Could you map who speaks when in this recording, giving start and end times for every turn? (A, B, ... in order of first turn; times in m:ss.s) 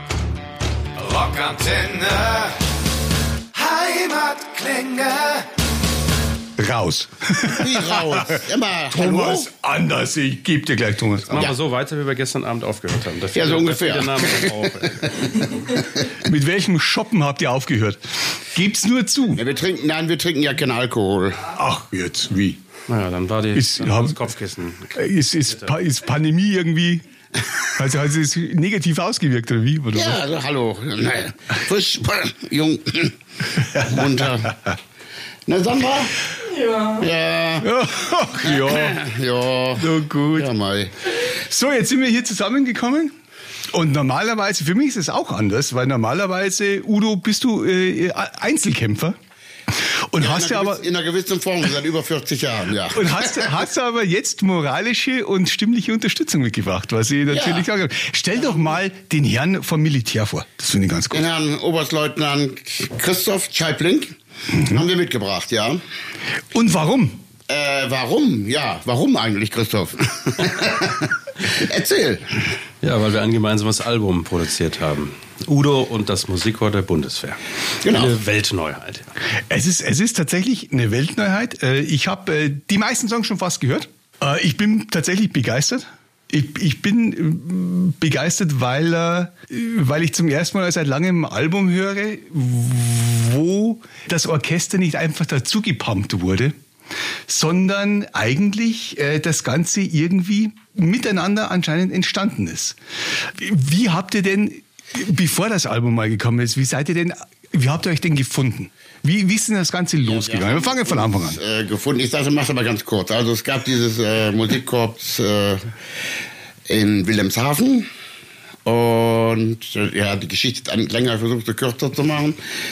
0:00.9-0:02.7 A
0:03.5-0:05.5 A
0:06.6-0:11.5 B
0:07.5-0:09.5 C
0:11.3-0:15.4 D
0:13.3-0:15.8 C
0:16.1-0:19.4 B
0:19.3-0:21.5 C
0:21.5-0:22.6 B
0:22.9-0:25.0 D
0:23.5-0:24.2 B
0:24.9-0:27.0 B
0:27.7-0:30.2 B
0:29.9-0:33.2 C
0:33.7-0:34.6 C
0:35.5-0:36.2 C
0:36.9-0:37.7 C
0:37.6-0:39.0 B
0:38.4-0:40.9 C
0:39.8-0:40.5 B
0:41.1-0:43.1 B
0:43.7-0:49.2 B
0:49.7-0:50.8 B
0:50.2-0:53.6 C
0:52.9-1:01.2 B
0:57.3-0:57.7 C
1:01.1-1:05.8 C
1:06.5-1:07.2 B
1:07.5-1:12.5 C
1:12.8-1:19.1 D
1:17.8-1:18.1 C
1:19.5-1:36.6 B
1:37.3-1:51.4 B
1:50.0-1:55.7 C
1:56.7-1:57.9 C
1:58.6-2:02.4 C